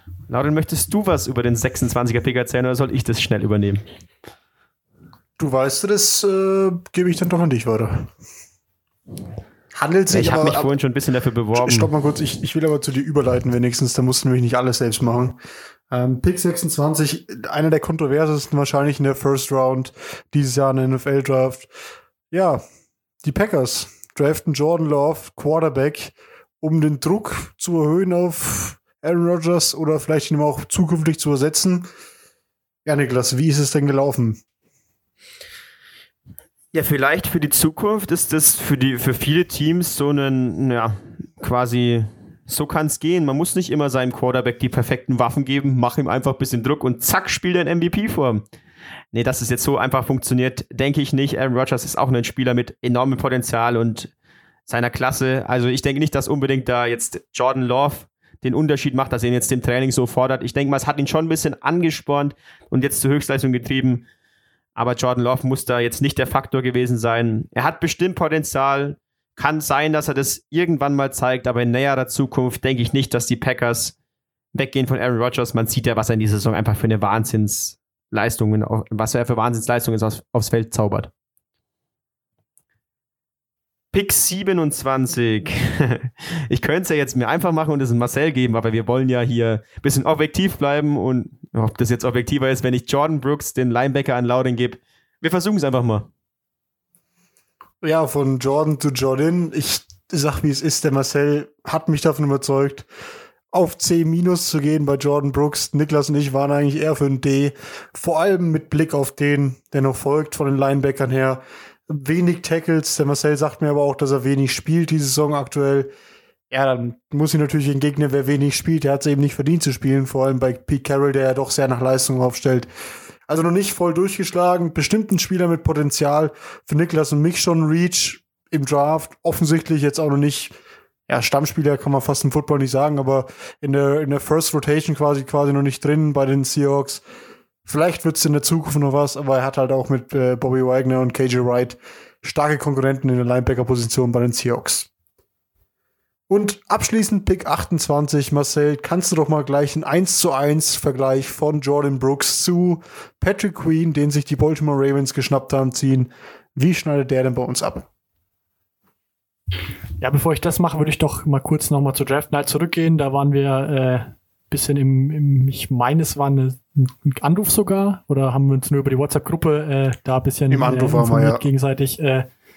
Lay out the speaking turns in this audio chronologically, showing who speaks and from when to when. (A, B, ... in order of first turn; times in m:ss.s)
0:00.3-0:03.8 A
0:05.4-0:08.1 B
0:09.7-0:10.7 B
0:10.1-0:11.9 A
0:11.5-0:15.4 B
0:15.9-0:21.7 B
0:22.3-0:22.6 B
0:23.2-0:31.9 B
0:32.8-0:34.4 B
0:36.7-0:48.4 A
0:49.1-0:54.1 A
0:54.7-1:04.0 A
1:04.8-1:13.9 A
1:14.5-1:21.1 A
1:23.9-1:36.1 A
1:37.8-1:42.9 B
1:43.5-1:55.9 B
1:56.5-2:02.7 B
2:03.3-2:10.5 B
2:11.1-2:17.0 B
2:17.6-2:24.9 B
2:26.3-2:37.9 B
2:40.0-2:52.3 C
2:50.5-2:51.4 B